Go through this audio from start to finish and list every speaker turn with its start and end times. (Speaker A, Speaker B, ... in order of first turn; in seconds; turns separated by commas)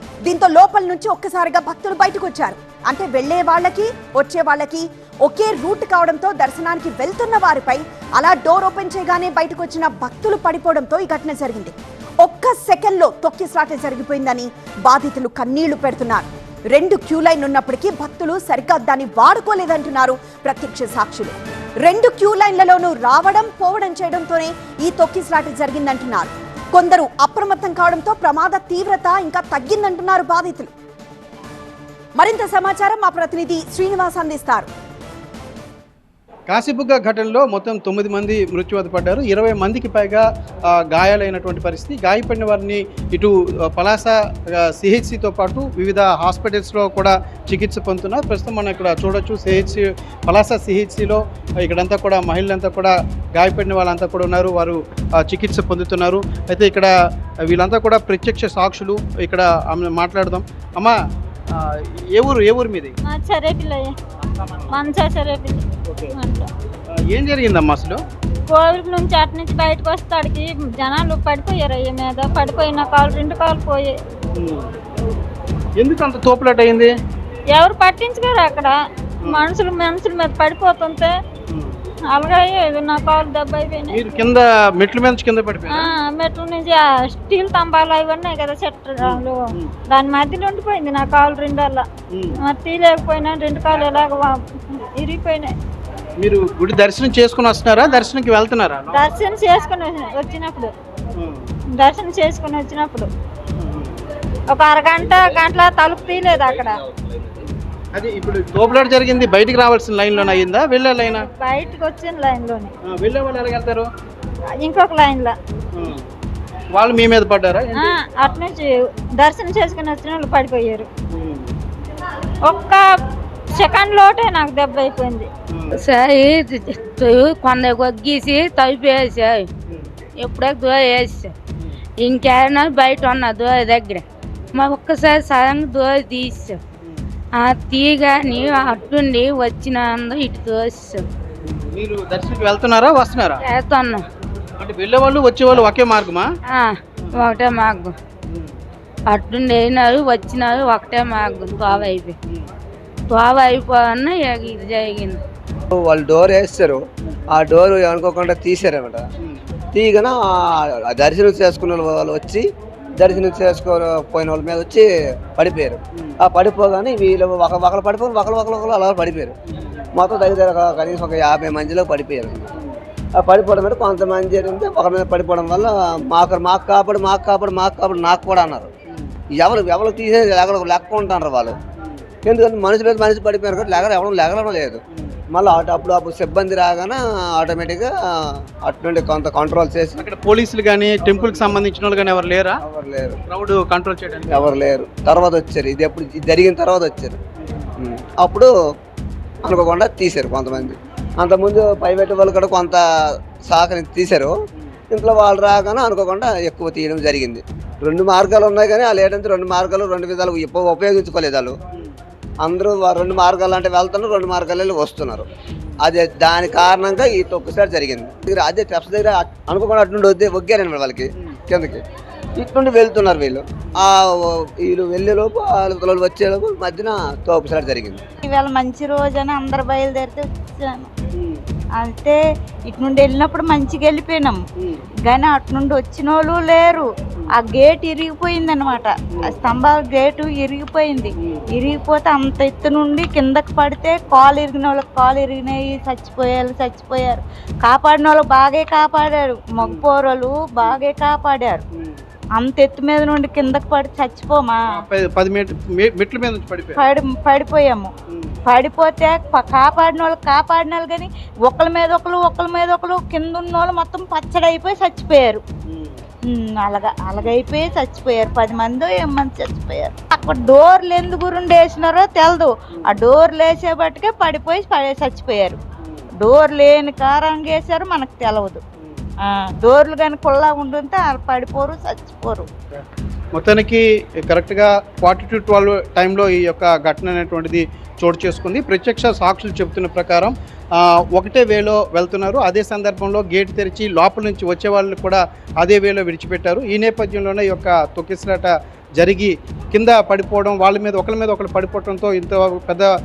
Speaker A: 0.2-30.7, Speaker A: 32.1-34.7, Speaker B: 36.5-56.9, Speaker B: 57.4-60.9, Speaker B: 61.5-62.9, Speaker C: 63.1-63.9, Speaker B: 64.4-64.7, Speaker C: 64.7-65.6, Speaker C: 66.2-66.5, Speaker B: 66.9-68.0, Speaker C: 68.5-73.9, Speaker B: 74.3-74.7, Speaker B: 75.8-76.9, Speaker C: 77.5-78.7, Speaker C: 79.3-81.1, Speaker B: 81.5-81.7, Speaker C: 82.1-84.0, Speaker B: 83.9-85.9, Speaker C: 85.8-89.4, Speaker B: 89.0-89.7, Speaker C: 89.9-91.8, Speaker B: 92.1-92.4, Speaker C: 92.4-95.5, Speaker B: 96.2-99.0, Speaker C: 98.9-100.7, Speaker B: 101.2-101.4, Speaker C: 101.8-103.1, Speaker B: 103.6-103.9, Speaker C: 104.5-106.7, Speaker B: 107.9-111.3, Speaker C: 111.0-112.7, Speaker B: 112.9-113.9, Speaker C: 114.6-115.3, Speaker B: 115.7-116.0, Speaker B: 116.7-117.9, Speaker C: 117.8-120.9, Speaker B: 121.1-121.5, Speaker C: 122.5-122.8, Speaker C: 123.5-125.3, Speaker B: 125.5-125.8, Speaker D: 125.8-129.5, Speaker D: 130.2-131.3, Speaker D: 132.0-134.0, Speaker D: 134.6-136.6, Speaker D: 137.4-141.0, Speaker B: 141.4-143.4, Speaker D: 143.5-144.0, Speaker B: 144.6-146.2, Speaker D: 146.5-147.9, Speaker D: 149.1-152.1, Speaker B: 151.7-152.4, Speaker D: 153.1-155.2, Speaker E: 155.7-156.8, Speaker E: 157.3-159.0, Speaker E: 159.7-162.5, Speaker E: 163.0-169.3, Speaker E: 170.0-172.5, Speaker E: 173.2-178.7, Speaker E: 179.4-181.5, Speaker E: 182.2-190.0, Speaker B: 190.0-192.6, Speaker E: 192.6-193.2, Speaker B: 193.3-194.5, Speaker E: 194.3-197.2, Speaker E: 197.8-198.5, Speaker E: 199.4-202.8, Speaker E: 203.4-204.3, Speaker E: 204.9-211.6, Speaker E: 212.4-215.3, Speaker E: 215.8-221.8, Speaker E: 222.4-228.0, Speaker F: 228.2-230.9, Speaker B: 231.2-231.4, Speaker F: 231.8-234.4, Speaker F: 235.1-251.6, Speaker F: 252.3-254.6, Speaker B: 254.7-256.8, Speaker F: 256.8-257.9, Speaker B: 258.1-258.4, Speaker F: 258.4-265.4, Speaker B: 265.7-266.0, Speaker F: 266.2-275.6, Speaker F: 276.2-278.6, Speaker F: 279.2-282.5, Speaker B: 283.3-302.9